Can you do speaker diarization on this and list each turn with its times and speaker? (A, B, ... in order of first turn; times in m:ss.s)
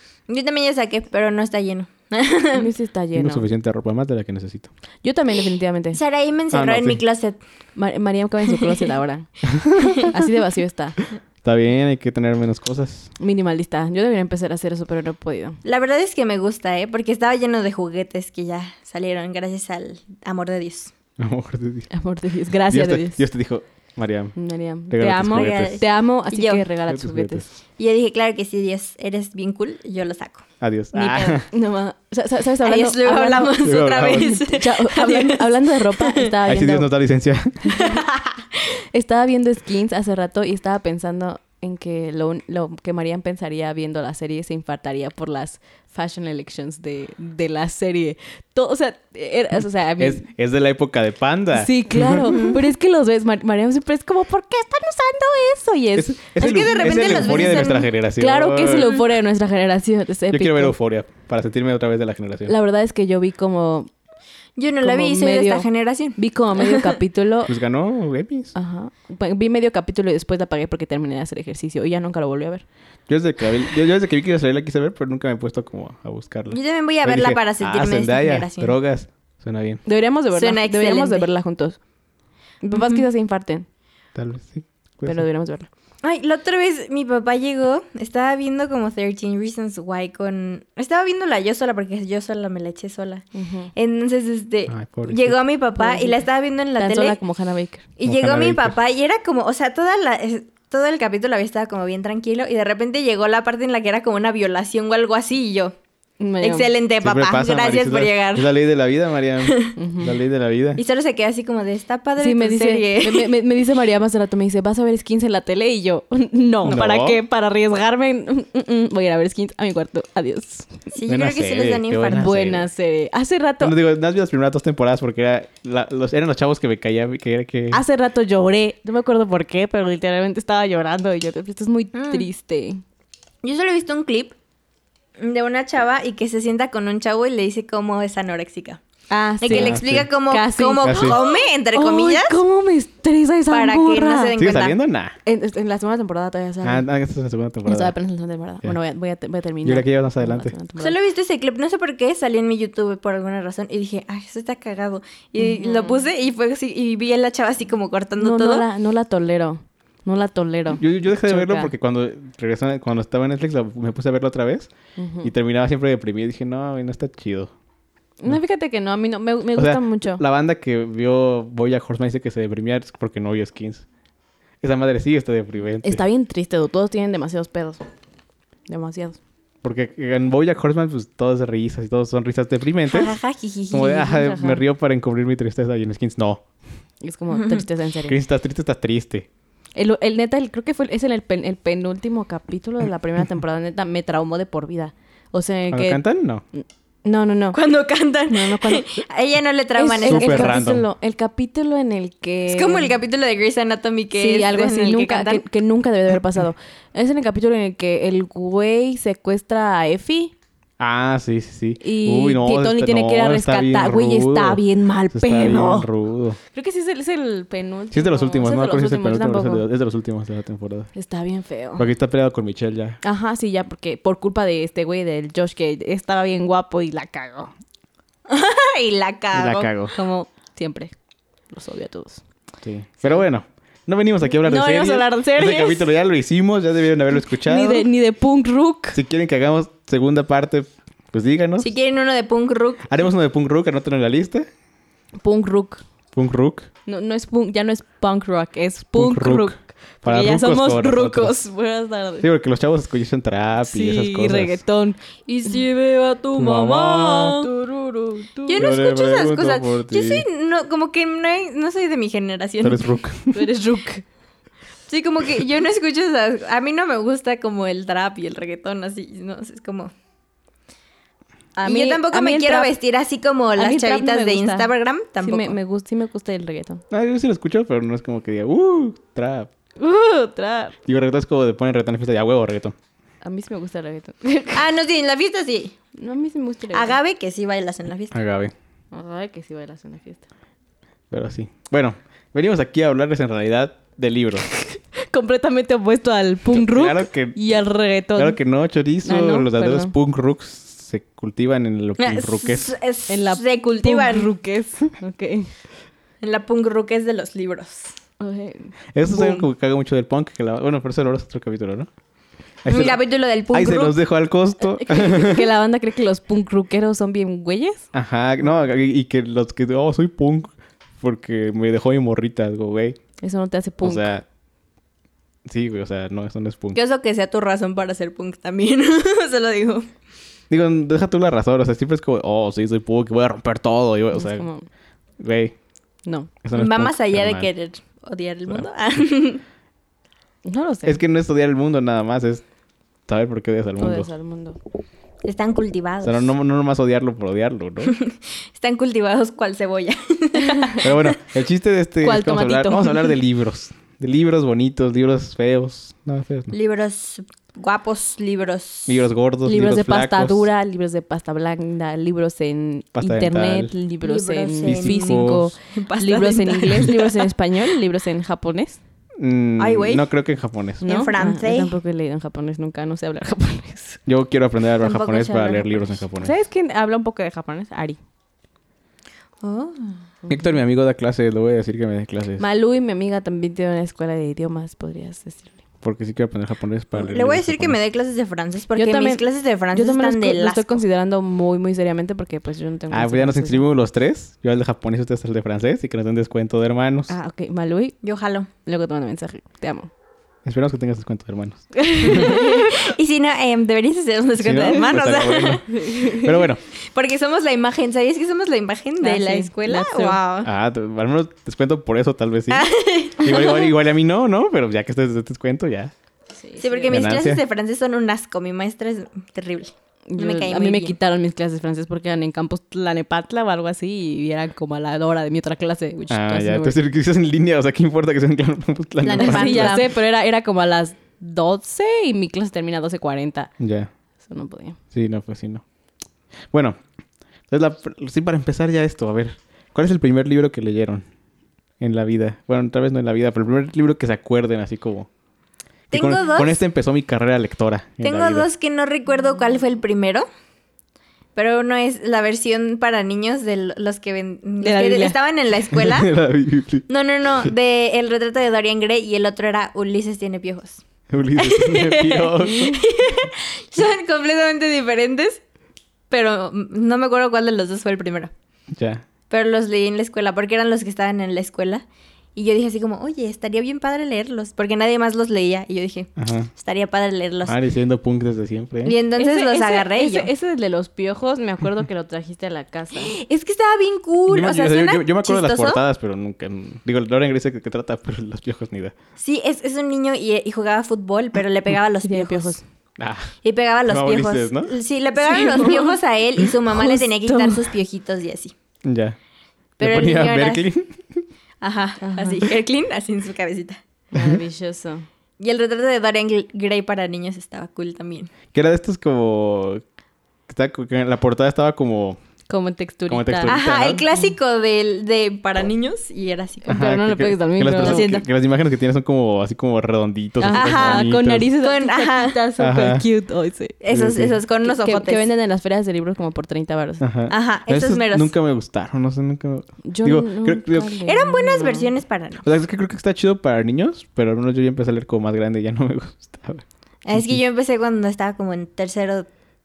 0:00.3-0:02.7 A
0:02.5-0:03.4 B
0:03.2-0:04.7 C
0:05.0-0:06.0 B
0:05.9-0:07.4 A
0:06.5-0:07.0 C
0:07.8-0:11.0 B
0:11.4-0:13.1 C
0:13.2-0:15.6 B
0:15.6-0:20.9 A
0:21.2-0:21.9 C
0:21.9-0:23.2 B
0:22.7-0:24.3 C
0:24.3-0:27.5 B
0:24.9-0:25.8 C
0:25.2-0:26.6 A
0:26.9-0:27.4 C
0:27.8-0:31.4 A
0:30.6-0:31.4 C
0:31.5-0:36.9 B
0:32.6-0:36.3 A
0:33.6-0:34.3 C
0:36.4-0:37.7 C
0:37.7-0:38.0 B
0:37.7-0:38.4 A
0:38.7-0:50.2 B
0:50.0-0:52.5 C
0:51.5-1:00.7 B
0:56.0-0:58.9 C
0:56.4-0:57.9 A
1:00.3-1:02.5 C
1:02.4-1:03.9 B
1:04.6-1:06.9 A
1:04.8-1:07.5 B
1:07.4-1:08.5 C
1:08.5-1:12.6 B
1:13.1-1:19.8 C
1:16.5-1:18.8 A
1:19.8-1:21.8 B
1:20.3-1:21.3 A
1:22.6-1:23.6 B
1:24.1-1:25.2 C
1:25.0-1:25.7 B
1:26.0-1:37.2 A
1:33.3-1:33.7 B
1:34.7-1:35.4 C
1:35.8-1:36.2 B
1:36.8-1:37.9 B
1:38.0-1:45.7 A
1:38.0-1:38.8 C
1:46.2-1:46.7 B
1:46.4-1:48.5 A
1:47.0-1:50.8 C
1:49.4-1:49.8 A
1:49.8-1:50.1 B
1:50.8-1:53.3 A
1:52.2-2:00.8 B
1:56.7-1:57.2 C
2:00.9-2:02.4 A
2:01.1-2:02.7 C
2:02.1-2:03.7 B
2:03.6-2:07.8 C
2:07.7-2:12.8 B
2:11.9-2:12.2 A
2:13.4-2:14.3 A
2:15.2-2:18.8 A
2:19.1-2:24.3 B
2:19.4-2:22.4 A
2:19.5-2:20.1 C
2:20.8-2:21.2 C
2:23.5-2:24.8 A
2:24.4-2:25.2 C
2:25.2-2:26.8 B
2:26.6-2:27.9 C
2:27.6-2:31.0 B
2:29.6-2:30.5 C
2:30.8-2:38.6 A
2:35.4-2:36.0 B
2:38.2-2:41.7 B
2:40.8-2:44.7 C
2:45.0-2:45.3 B
2:45.2-2:47.5 C
2:48.2-2:50.2 B
2:49.6-2:53.8 C
2:54.6-2:56.0 C
2:55.8-2:57.8 B
2:58.7-2:59.2 B
2:59.6-3:03.2 C
3:02.9-3:04.2 A
3:03.7-3:06.4 C
3:04.2-3:04.6 B
3:07.0-3:08.2 B
3:07.3-3:07.6 A
3:08.1-3:09.3 C
3:09.8-3:16.0 B
3:15.7-3:16.4 C
3:16.5-3:17.6 B
3:17.5-3:20.6 A
3:18.3-3:18.9 B
3:19.8-3:22.9 B
3:20.0-3:20.8 C
3:22.5-3:25.4 A
3:24.1-3:30.3 B
3:30.8-3:36.4 C
3:31.8-3:35.9 B
3:36.5-3:39.6 B
3:37.9-3:40.9 C
3:40.9-3:41.8 B
3:41.8-3:43.0 C
3:43.0-3:47.5 B
3:48.3-3:49.7 A
3:49.3-3:49.9 C
3:49.9-3:50.9 B
3:51.5-3:52.2 B
3:52.6-3:57.9 C
3:54.4-3:55.9 B
3:57.4-3:59.0 B
3:58.9-4:01.7 C
4:01.6-4:03.0 A
4:02.9-4:04.5 C
4:05.2-4:05.8 B
4:06.1-4:06.7 C
4:06.8-4:12.3 B
4:08.9-4:11.3 C
4:12.2-4:14.6 C
4:13.7-4:15.6 B
4:15.3-4:17.5 A
4:16.3-4:17.4 C
4:17.4-4:18.7 B
4:18.4-4:22.9 A
4:18.6-4:20.2 C
4:22.6-4:23.4 C
4:23.3-4:24.0 B
4:24.9-4:29.9 A
4:31.6-4:32.7 B
4:31.6-4:35.5 A
4:33.6-4:36.8 B
4:36.9-4:39.5 C
4:39.8-4:40.7 B
4:40.8-4:42.7 C
4:43.2-4:44.7 B
4:44.5-4:45.8 A
4:46.0-4:47.0 B
4:46.7-4:48.2 A
4:48.1-4:48.5 C
4:48.9-4:50.2 B
4:51.1-4:54.5 C
4:54.6-4:58.4 B
4:56.5-4:57.4 C
4:58.2-5:02.7 C
4:59.0-4:59.9 B
5:02.0-5:04.3 A
5:03.1-5:05.5 B
5:06.2-5:07.9 A
5:08.2-5:08.7 B
5:08.9-5:11.9 C
5:09.2-5:09.4 A
5:12.6-5:13.0 C
5:12.6-5:14.0 A
5:13.5-5:15.4 C
5:14.6-5:17.9 B
5:17.9-5:23.0 C
5:23.2-5:24.1 B
5:23.8-5:24.2 C
5:25.4-5:26.8 C
5:26.7-5:29.9 A
5:30.5-5:34.4 C
5:34.1-5:34.7 B
5:35.2-5:35.5 C
5:36.0-5:36.3 B
5:36.4-5:37.5 C
5:36.5-5:39.4 A
5:40.4-5:41.0 B
5:40.8-5:42.4 C
5:43.1-5:44.1 C
5:43.8-5:44.6 B
5:45.2-5:46.3 A
5:46.0-5:47.9 C
5:47.8-5:51.2 A
5:50.4-5:50.8 B
5:50.8-5:56.5 C
5:52.0-5:53.1 B
5:56.5-5:59.0 A
5:58.9-6:00.5 C
5:59.4-6:08.8 B
6:02.9-6:03.7 C
6:04.0-6:07.3 A
6:04.6-6:05.5 C
6:09.2-6:10.8 C
6:09.6-6:10.0 A
6:10.8-6:14.0 B
6:10.8-6:11.7 A
6:14.1-6:16.3 C
6:14.8-6:16.0 A
6:16.2-6:18.0 B
6:19.4-6:20.0 A
6:20.3-6:22.4 C
6:22.4-6:25.5 B
6:25.8-6:27.8 C
6:26.9-6:30.8 A
6:28.8-6:33.7 B
6:32.9-6:37.1 C
6:37.1-6:38.0 B
6:38.0-6:38.5 A
6:38.6-6:39.9 B
6:40.4-6:42.3 C
6:41.8-6:42.9 B
6:42.0-6:46.3 A
6:44.4-6:46.6 C
6:45.7-6:46.3 B
6:46.9-6:50.5 A
6:49.0-6:50.2 B
6:50.4-6:55.9 C
6:52.5-6:53.7 A
6:56.4-6:57.0 B
6:56.6-7:01.0 A
6:56.9-6:57.4 C
7:00.1-7:06.8 B
7:06.1-7:09.8 C
7:09.0-7:09.9 A
7:09.1-7:13.5 B
7:13.6-7:13.9 C
7:14.2-7:14.8 B
7:14.9-7:15.6 C
7:16.5-7:16.8 C
7:17.5-7:21.0 C
7:21.8-7:25.1 C
7:25.9-7:26.6 A
7:25.9-7:28.5 C
7:28.0-7:30.3 A
7:31.4-7:36.1 A
7:34.6-7:35.2 B
7:35.7-7:36.9 C
7:36.9-7:40.8 A
7:41.1-7:42.8 C
7:41.4-7:45.4 A
7:46.1-7:48.3 A
7:48.7-7:49.0 C
7:49.3-7:57.6 A
7:56.2-7:56.5 C
7:57.4-7:59.0 C
7:58.8-8:00.3 A
7:59.2-8:03.1 B
8:02.9-8:05.8 A
8:04.3-8:08.9 C
8:09.2-8:12.6 A
8:12.0-8:12.6 B
8:13.0-8:13.3 C
8:13.4-8:18.5 A
8:13.9-8:14.7 C
8:15.2-8:15.9 B
8:16.7-8:17.6 B
8:18.8-8:19.2 C
8:19.8-8:20.7 A
8:19.8-8:21.2 C
8:21.6-8:23.8 A
8:22.0-8:22.4 B
8:24.1-8:25.0 B
8:25.4-8:28.3 A
8:28.5-8:29.8 C
8:30.5-8:32.2 C
8:32.5-8:33.5 B
8:33.1-8:34.0 C
8:33.4-8:36.8 A
8:36.6-8:38.1 B
8:36.7-8:41.5 C
8:37.8-8:38.2 A
8:40.4-8:43.8 B
8:40.5-8:42.4 A
8:42.6-8:43.0 C
8:43.8-8:45.2 A
8:43.9-8:44.3 C
8:44.6-8:47.0 B
8:47.0-8:50.9 C
8:47.3-8:48.3 A
8:49.8-8:51.9 B
8:51.0-8:52.4 A
8:52.4-8:57.4 C
8:57.0-8:59.3 A